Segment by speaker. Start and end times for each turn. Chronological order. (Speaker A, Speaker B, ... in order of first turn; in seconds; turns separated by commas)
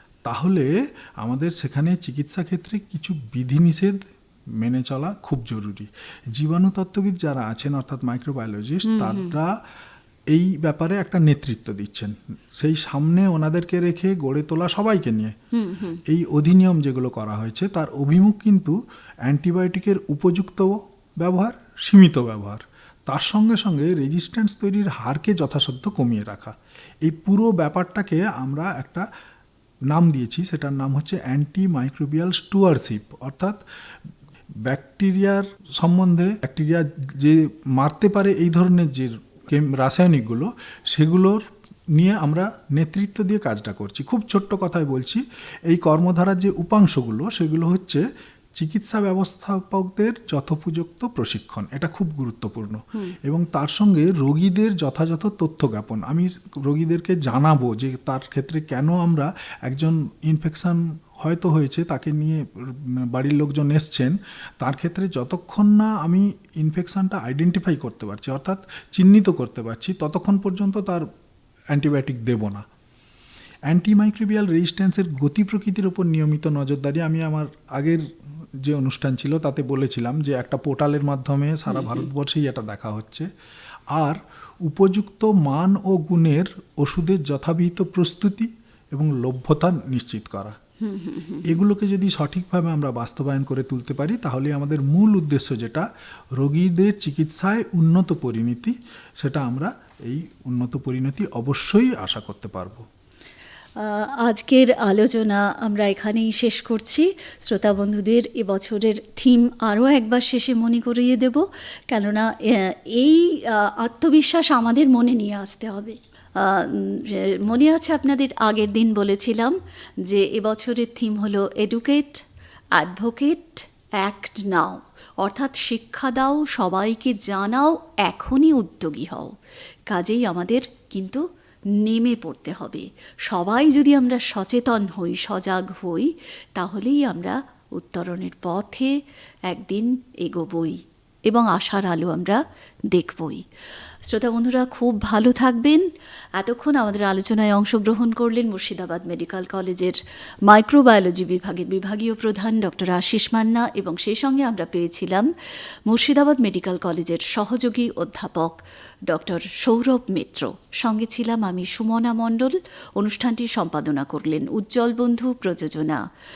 Speaker A: 0.2-4.0, Speaker A: 4.6-9.5, Speaker B: 8.8-9.3, Speaker A: 10.3-15.3, Speaker B: 15.5-16.0, Speaker A: 16.1-29.0, Speaker A: 29.9-33.6, Speaker A: 34.6-71.0, Speaker A: 71.7-72.6, Speaker A: 73.7-78.0, Speaker A: 78.6-83.3, Speaker B: 81.7-82.0, Speaker A: 83.9-90.6, Speaker B: 90.8-91.5, Speaker A: 91.5-102.8, Speaker B: 103.8-119.5, Speaker B: 120.1-122.2, Speaker B: 122.8-129.3, Speaker B: 129.9-131.2, Speaker B: 131.8-138.9, Speaker B: 139.5-142.4, Speaker B: 142.9-143.4, Speaker B: 144.1-145.8, Speaker B: 146.4-155.3, Speaker B: 155.9-158.6, Speaker B: 159.1-166.0